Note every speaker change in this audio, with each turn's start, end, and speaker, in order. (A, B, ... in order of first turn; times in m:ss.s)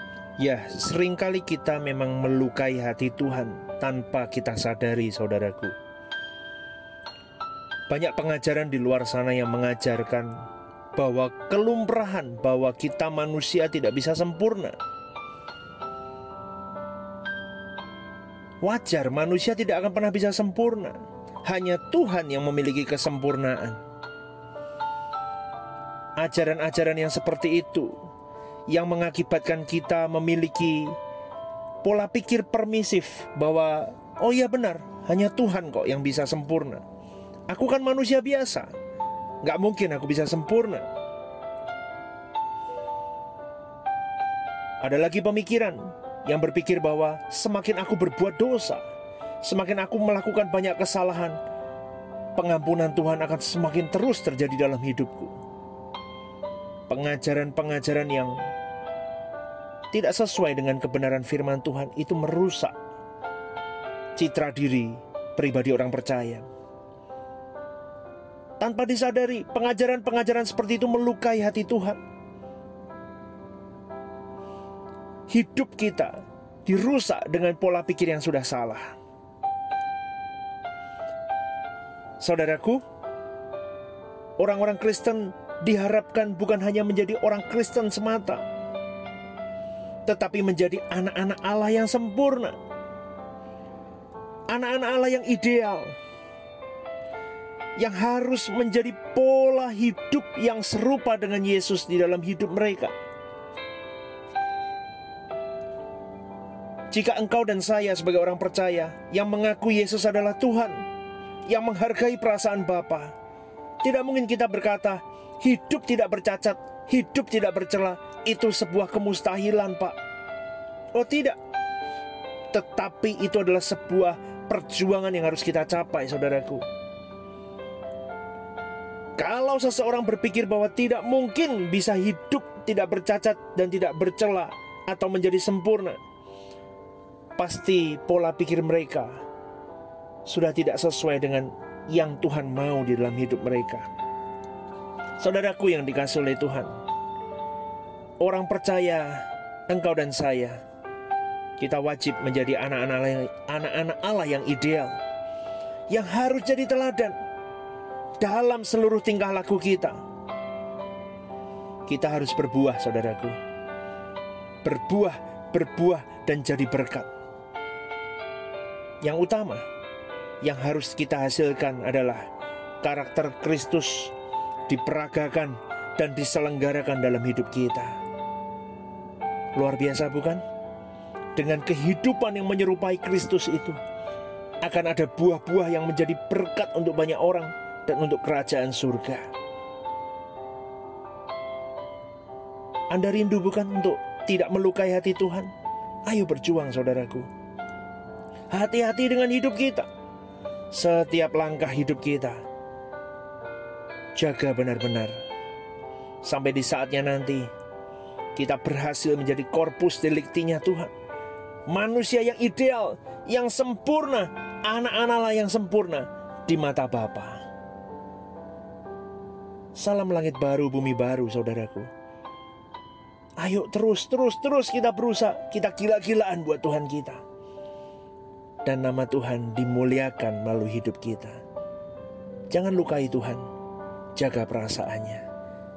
0:00.4-0:05.7 A
0:07.9-0:14.8 A
0:18.6-0:23.8 A
0:26.2-0:28.0 A
0:28.7-0:31.0 A
0:31.8-0:36.8 A
0:37.5-0:38.7 A
0:39.4-0:40.8 A
0:44.8-0:48.8 A
0:49.4-0:51.4 A
0:52.3-0:55.4 A
0:56.9-0:58.4 A
0:59.9-1:02.7 A
1:04.2-1:06.5 A
1:08.6-1:12.0 A
1:15.3-1:19.0 A
1:22.2-1:22.8 A
1:24.4-1:28.4 A
1:30.0-1:32.6 A
1:34.5-1:35.9 A
1:37.8-1:42.9 A
1:46.9-1:50.8 A
1:51.5-1:53.1 A
1:53.8-2:00.0 A
2:00.9-2:01.4 A
2:02.5-2:06.6 A
2:09.2-2:16.0 A
2:17.4-2:19.2 A
2:20.2-2:23.9 A
2:25.2-2:26.8 A
2:28.2-2:30.6 A
2:31.6-2:35.0 A
2:35.9-2:37.2 A
2:38.2-2:40.0 A
2:41.8-2:43.4 A
2:44.6-2:47.1 A
2:49.0-2:49.6 A
2:50.4-2:52.3 A
2:52.8-2:54.1 A
2:54.7-2:58.0 A
2:59.5-3:00.4 A
3:01.4-3:03.8 A
3:04.6-3:09.3 A
3:12.9-3:15.5 A
3:16.0-3:17.3 A
3:18.5-3:19.9 A
3:20.7-3:22.4 A
3:24.1-3:25.2 A
3:26.2-3:27.5 A
3:28.3-3:30.9 A
3:31.7-3:37.4 A
3:39.7-3:41.9 A
3:43.4-3:47.2 A
3:48.6-3:51.4 A
3:52.5-3:53.5 A
3:54.2-3:55.2 A